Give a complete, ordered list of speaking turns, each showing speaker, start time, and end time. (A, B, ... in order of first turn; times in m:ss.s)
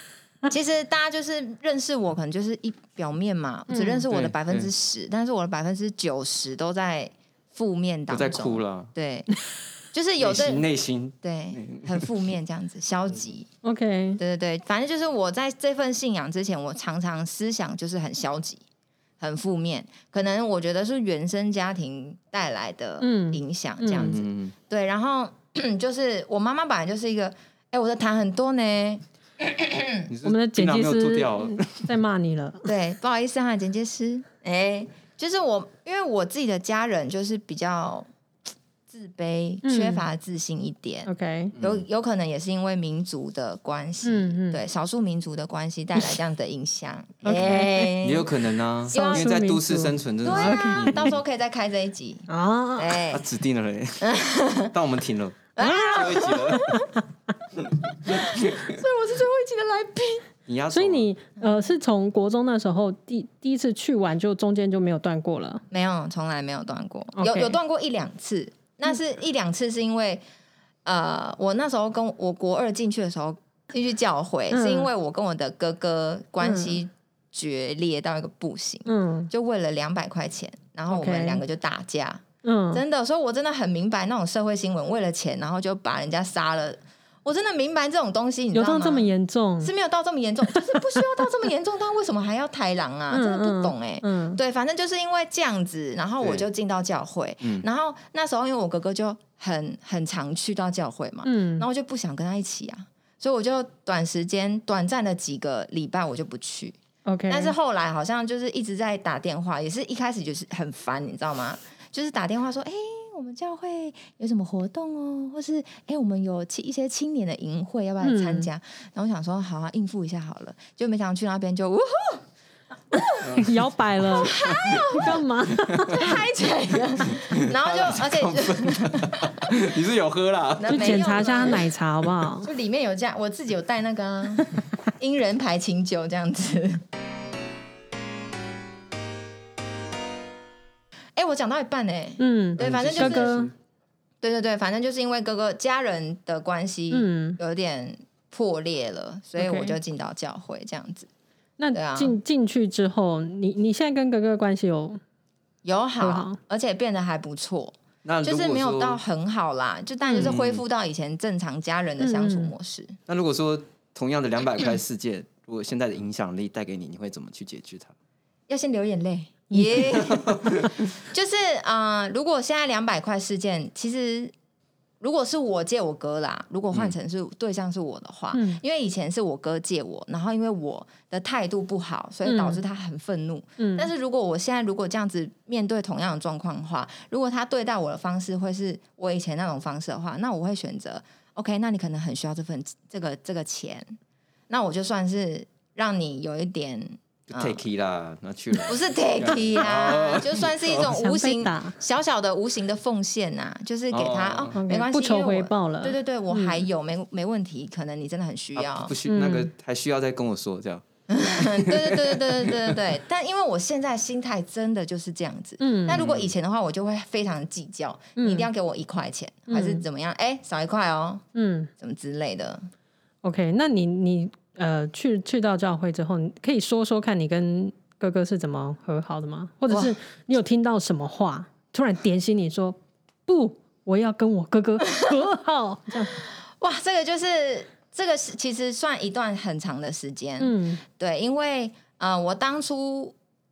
0:00.5-0:09.4 A
0:03.7-0:04.0 B
0:04.1-0:04.7 C
0:08.1-0:08.9 C
0:09.9-0:10.6 A
0:10.2-0:12.3 C
0:11.2-0:13.5 A
0:13.6-0:14.2 B
0:14.2-0:18.6 A
0:19.2-0:30.1 A
0:23.0-0:24.2 B
0:24.0-0:24.5 C
0:30.1-0:31.9 C
0:30.2-0:32.7 B
0:32.6-0:38.1 A
0:38.9-0:48.3 A
0:39.6-0:40.0 B
0:41.1-0:41.6 B
0:41.5-0:41.8 C
0:44.0-0:44.6 B
0:47.2-0:48.0 B
0:48.0-0:51.2 C
0:48.9-0:51.1 B
0:48.9-0:49.3 A
0:50.2-0:53.2 A
0:52.3-0:53.0 B
0:53.1-0:54.1 C
0:54.0-0:54.7 A
0:54.7-0:56.8 C
0:55.6-0:56.9 A
0:55.6-0:57.0 B
0:57.8-1:00.3 A
0:58.1-0:58.7 C
1:00.5-1:01.1 C
1:00.7-1:05.6 B
1:05.7-1:10.2 A
1:07.2-1:07.6 B
1:10.9-1:29.1 A
1:14.5-1:14.9 B
1:16.4-1:16.8 B
1:18.9-1:19.3 B
1:20.9-1:21.4 B
1:22.4-1:22.8 B
1:28.5-1:29.7 B
1:29.6-1:46.8 A
1:30.6-1:31.2 B
1:33.1-1:34.4 B
1:41.2-1:41.7 B
1:47.1-1:47.6 B
1:47.3-2:02.2 A
1:58.0-1:58.5 B
2:02.9-2:03.3 A
2:03.2-2:03.6 C
2:03.3-2:06.1 B
2:04.1-2:05.0 C
2:04.2-2:05.2 A
2:05.7-2:05.9 C
2:05.8-2:09.5 A
2:07.1-2:11.2 C
2:10.6-2:11.7 A
2:10.7-2:12.5 B
2:12.4-2:16.8 A
2:21.2-2:23.5 A
2:22.2-2:23.5 B
2:22.6-2:23.5 C
2:24.2-2:31.1 A
2:26.9-2:27.4 B
2:29.4-2:29.8 B
2:31.6-2:35.0 B
2:31.7-2:32.2 A
2:35.6-2:43.0 A
2:36.0-2:36.4 B
2:38.0-2:39.0 C
2:40.2-2:40.6 C
2:42.0-2:42.5 B
2:43.1-2:47.9 C
2:48.5-2:54.3 A
2:49.5-2:49.8 B
2:50.0-2:50.7 C
2:55.0-3:14.0 A
2:58.3-2:58.6 B
3:02.2-3:02.6 B
3:03.6-3:03.9 B
3:14.5-3:17.6 A
3:17.3-3:20.9 C
3:18.6-3:29.0 A
3:20.9-3:21.8 B
3:23.9-3:24.6 C
3:24.5-3:26.6 B
3:28.6-3:32.8 C
3:29.1-3:29.5 B
3:31.1-3:41.2 A
3:35.6-3:36.0 B
3:35.9-3:36.3 C
3:38.2-3:38.5 B
3:39.5-3:39.8 B
3:41.4-3:41.7 B
3:41.8-3:42.7 A
3:43.2-3:56.2 B
3:49.7-3:50.0 A
3:56.1-4:03.1 A
4:00.4-4:00.8 B